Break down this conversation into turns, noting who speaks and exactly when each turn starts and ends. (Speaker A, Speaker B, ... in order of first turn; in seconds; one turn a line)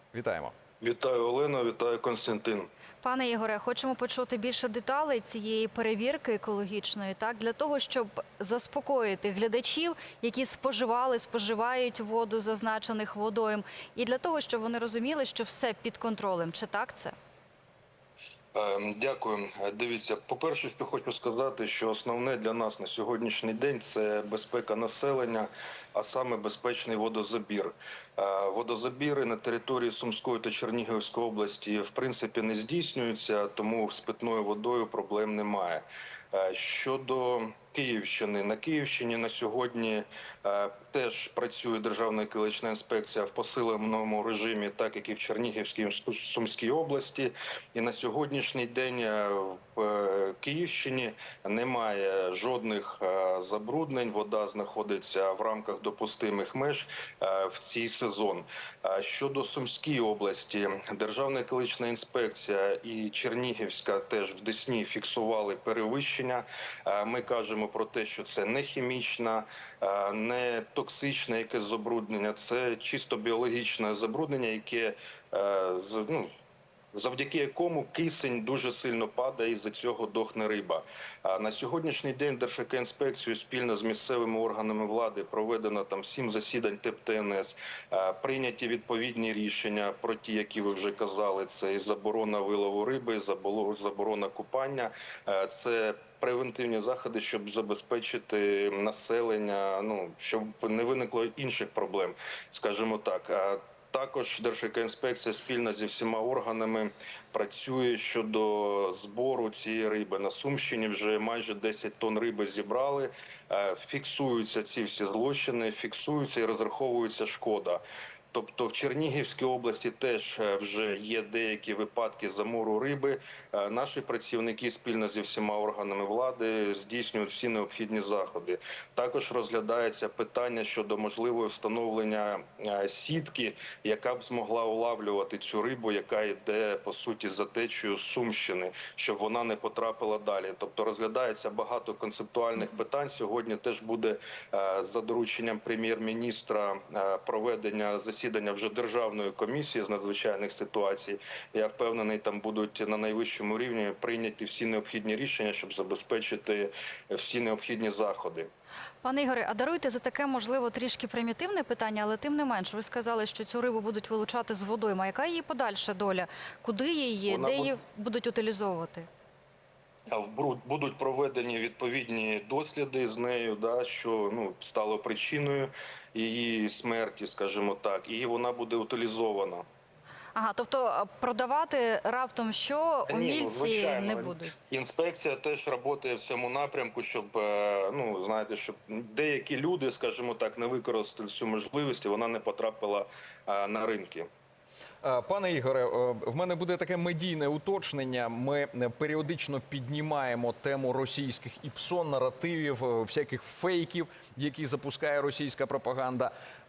Speaker A: 0.1-0.5
Speaker B: 0.8-2.7
Speaker C: 3.0-17.1
Speaker B: 18.5-76.3
Speaker B: 76.9-158.5
Speaker C: 159.0-169.1
Speaker B: 167.3-167.8
Speaker B: 170.1-179.7
Speaker C: 180.3-184.6
Speaker B: 183.1-194.3
Speaker A: 195.0-206.3